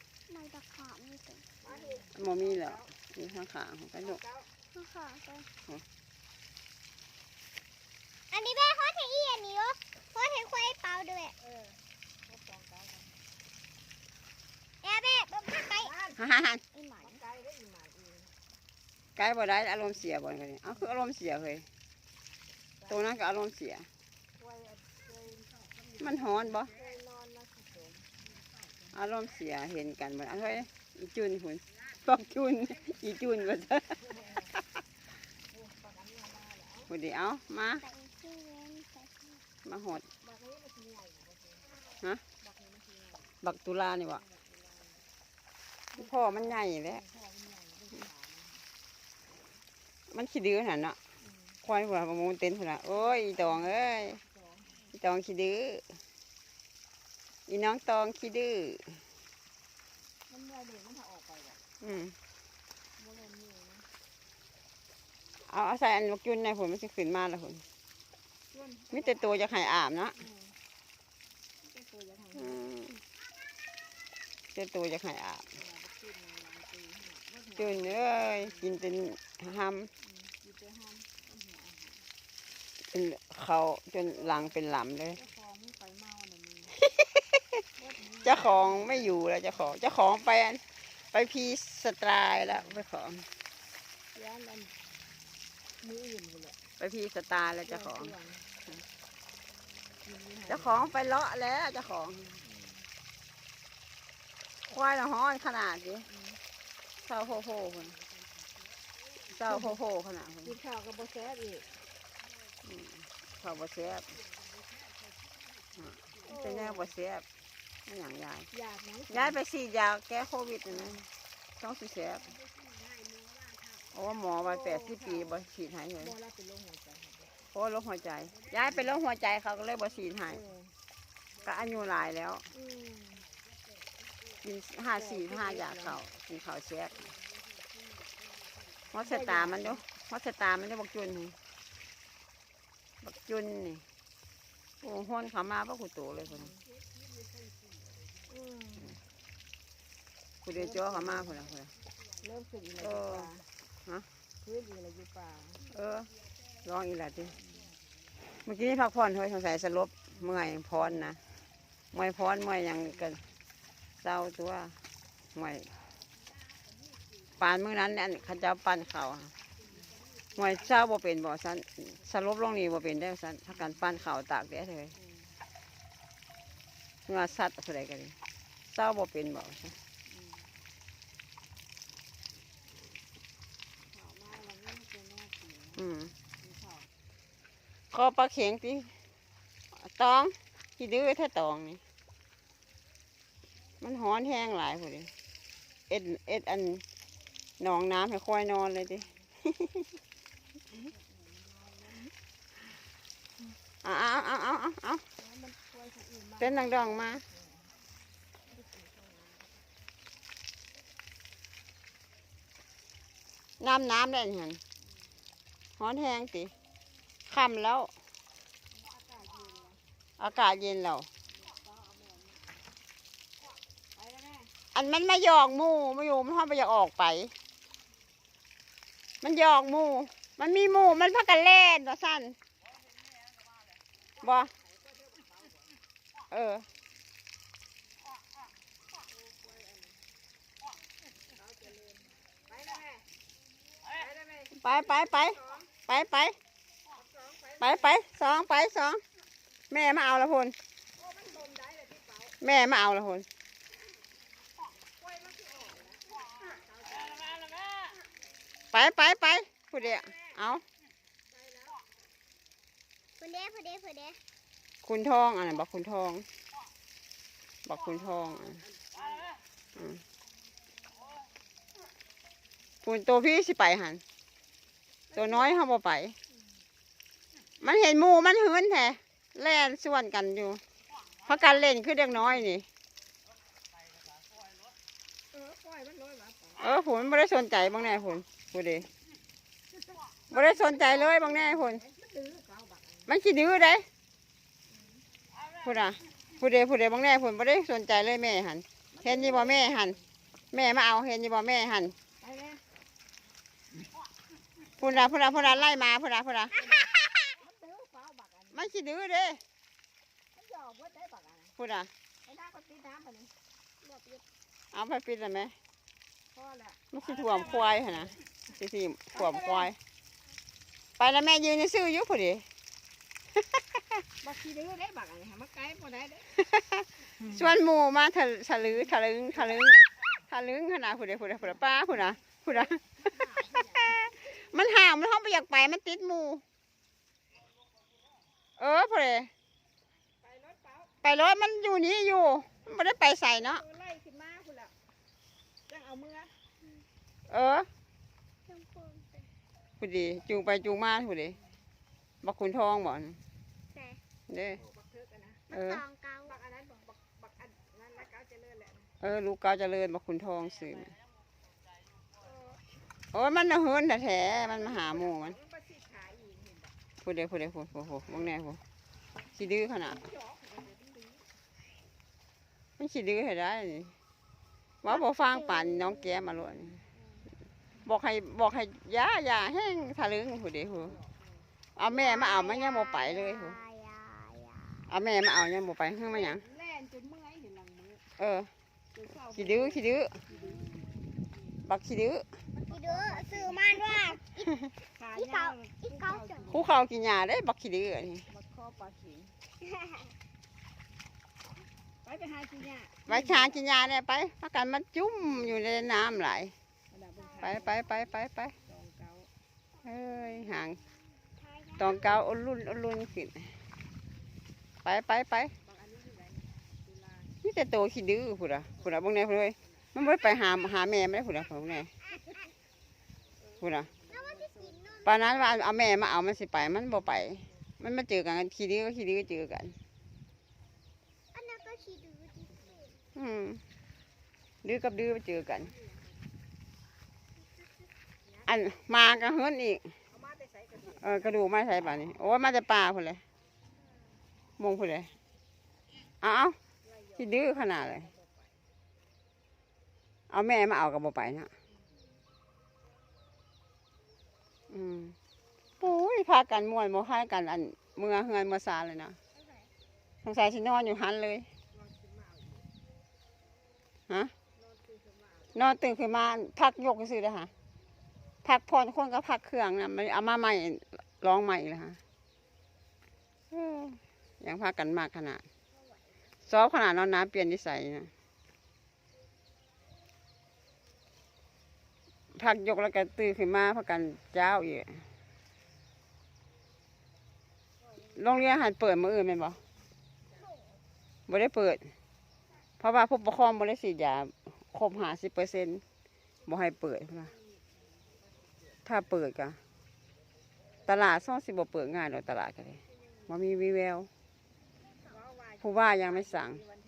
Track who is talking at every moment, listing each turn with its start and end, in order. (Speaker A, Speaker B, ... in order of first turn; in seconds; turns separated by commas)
Speaker A: 0.3-1.5, Speaker B: 1.7-2.1, Speaker C: 2.1-4.2, Speaker A: 4.7-5.5, Speaker A: 8.3-11.4, Speaker A: 14.8-16.0, Speaker C: 16.2-16.6, Speaker A: 16.7-17.2, Speaker B: 17.3-18.2, Speaker C: 19.2-21.6, Speaker C: 22.9-23.9, Speaker B: 24.5-25.5, Speaker C: 26.0-26.8, Speaker B: 26.8-28.1, Speaker C: 28.9-34.0, Speaker B: 35.5-36.9, Speaker C: 36.9-37.8, Speaker A: 37.8-39.4, Speaker C: 39.6-40.0, Speaker B: 40.2-41.6, Speaker C: 43.4-44.2, Speaker C: 46.0-47.0, Speaker B: 47.0-48.3, Speaker C: 50.1-51.0, Speaker C: 51.6-54.2, Speaker C: 54.9-55.8, Speaker C: 57.5-58.9, Speaker B: 60.4-61.5, Speaker C: 61.8-62.1, Speaker B: 63.1-63.8, Speaker C: 65.5-67.6, Speaker C: 68.9-70.2, Speaker B: 71.8-72.3, Speaker C: 72.3-73.0, Speaker C: 74.5-75.5, Speaker B: 75.8-77.4, Speaker C: 77.6-79.9, Speaker B: 80.5-81.2, Speaker C: 82.9-85.2, Speaker B: 85.2-86.6, Speaker C: 86.8-87.2, Speaker B: 87.8-88.5, Speaker C: 88.2-93.3, Speaker B: 94.2-94.7, Speaker B: 95.9-96.5, Speaker C: 96.8-98.2, Speaker B: 98.0-98.4, Speaker B: 100.1-100.4, Speaker C: 100.5-102.3, Speaker C: 104.7-106.1, Speaker C: 107.0-108.0, Speaker C: 109.3-110.6, Speaker B: 110.6-111.7, Speaker C: 112.7-114.1, Speaker C: 115.8-117.2, Speaker C: 117.9-118.5, Speaker B: 118.6-119.0, Speaker C: 119.1-121.1, Speaker C: 121.6-122.3, Speaker C: 123.9-126.2, Speaker B: 126.2-127.3, Speaker C: 127.5-130.4, Speaker C: 131.4-132.5, Speaker B: 132.6-133.3, Speaker C: 134.4-137.1, Speaker C: 138.9-141.4, Speaker B: 139.1-139.4, Speaker C: 143.0-143.8, Speaker C: 144.8-146.5, Speaker B: 148.5-148.8, Speaker C: 150.4-151.7, Speaker B: 152.2-153.4, Speaker C: 152.8-153.3, Speaker B: 154.5-155.7, Speaker C: 155.7-156.1, Speaker C: 156.6-157.3, Speaker C: 158.4-161.2, Speaker C: 161.9-163.2, Speaker C: 164.0-164.8, Speaker C: 165.3-165.7, Speaker C: 167.4-169.3, Speaker C: 170.4-174.9, Speaker C: 177.1-178.2, Speaker C: 178.7-179.8, Speaker B: 184.1-185.7, Speaker C: 185.8-186.2, Speaker C: 187.9-188.9, Speaker C: 189.8-191.8, Speaker C: 193.8-195.1, Speaker C: 195.9-196.8, Speaker C: 197.6-199.8, Speaker C: 203.8-205.0, Speaker B: 205.2-206.4, Speaker C: 206.4-207.2, Speaker B: 207.2-207.4, Speaker C: 213.6-214.6, Speaker C: 215.8-216.5, Speaker C: 217.3-217.9, Speaker B: 219.3-219.7, Speaker C: 220.2-221.1, Speaker C: 224.7-227.3, Speaker C: 229.2-232.4, Speaker C: 234.2-234.5, Speaker C: 236.3-236.7, Speaker B: 241.6-243.0, Speaker B: 243.9-244.5, Speaker C: 244.5-246.4, Speaker B: 247.2-247.6, Speaker C: 247.6-249.0, Speaker C: 249.7-250.6, Speaker B: 251.0-252.3, Speaker C: 252.4-253.3, Speaker B: 255.0-257.5, Speaker C: 258.7-260.6, Speaker A: 263.2-264.2, Speaker C: 264.8-266.3, Speaker C: 267.6-268.6, Speaker C: 269.8-270.0, Speaker C: 272.8-274.0, Speaker C: 275.1-276.2, Speaker C: 277.6-280.6, Speaker C: 281.2-282.6, Speaker B: 285.3-286.6, Speaker C: 286.6-288.9, Speaker C: 290.3-291.9, Speaker B: 291.9-292.8, Speaker C: 293.1-293.9, Speaker C: 295.6-300.0, Speaker B: 299.0-299.3, Speaker C: 300.5-301.9, Speaker B: 302.2-302.6, Speaker C: 304.8-307.4, Speaker B: 307.5-308.5, Speaker C: 308.5-309.4, Speaker B: 310.4-311.5, Speaker C: 311.6-311.9, Speaker B: 312.3-313.3, Speaker A: 313.8-314.2, Speaker C: 314.7-315.6, Speaker C: 316.9-319.8, Speaker C: 321.0-322.4, Speaker B: 324.2-326.3, Speaker C: 326.4-336.4, Speaker B: 333.1-334.0, Speaker C: 338.6-339.3, Speaker B: 340.4-340.9, Speaker C: 341.0-343.6, Speaker B: 343.6-344.7, Speaker B: 345.7-346.3, Speaker C: 347.3-347.7, Speaker A: 348.5-349.3, Speaker C: 349.8-351.4, Speaker C: 352.2-353.2, Speaker A: 353.7-354.0, Speaker C: 354.3-354.6, Speaker A: 355.5-356.4, Speaker C: 355.5-355.8, Speaker B: 356.5-358.6, Speaker C: 359.0-360.9, Speaker C: 363.1-365.4, Speaker B: 365.7-366.5, Speaker C: 367.0-368.6, Speaker C: 369.4-370.0, Speaker C: 372.8-373.9, Speaker C: 374.8-376.8, Speaker A: 374.9-376.4, Speaker C: 377.8-381.0, Speaker C: 381.8-383.6, Speaker A: 381.9-384.9, Speaker C: 384.9-386.4, Speaker C: 388.2-388.5, Speaker C: 389.2-390.2, Speaker A: 390.3-391.0, Speaker C: 391.6-392.2, Speaker A: 392.7-396.6, Speaker C: 396.5-398.3, Speaker B: 398.4-399.3, Speaker A: 399.6-400.1, Speaker B: 402.1-403.2, Speaker C: 403.1-406.5, Speaker A: 407.1-407.7, Speaker C: 407.4-408.6, Speaker C: 409.8-410.8, Speaker A: 411.4-412.2, Speaker C: 411.8-413.5, Speaker C: 414.8-415.5, Speaker C: 417.4-421.9, Speaker A: 422.1-422.5, Speaker C: 423.6-423.9, Speaker A: 424.0-425.5, Speaker C: 425.1-429.8, Speaker A: 431.3-433.0, Speaker C: 433.1-433.6, Speaker C: 434.6-435.7, Speaker C: 438.5-439.8, Speaker C: 440.9-443.2, Speaker C: 444.6-445.1, Speaker C: 446.2-446.6, Speaker C: 447.2-448.1, Speaker C: 450.3-451.5, Speaker C: 454.7-455.1, Speaker C: 455.8-459.2, Speaker A: 459.3-459.7, Speaker C: 460.2-461.5, Speaker C: 465.5-467.5, Speaker C: 468.4-472.0, Speaker C: 473.5-475.4, Speaker A: 475.7-476.2, Speaker C: 476.5-478.1, Speaker C: 482.3-485.0, Speaker C: 488.2-489.6, Speaker C: 491.3-491.9, Speaker C: 492.8-495.8, Speaker C: 496.5-497.3, Speaker C: 498.9-499.6, Speaker C: 500.9-504.1, Speaker C: 505.6-506.6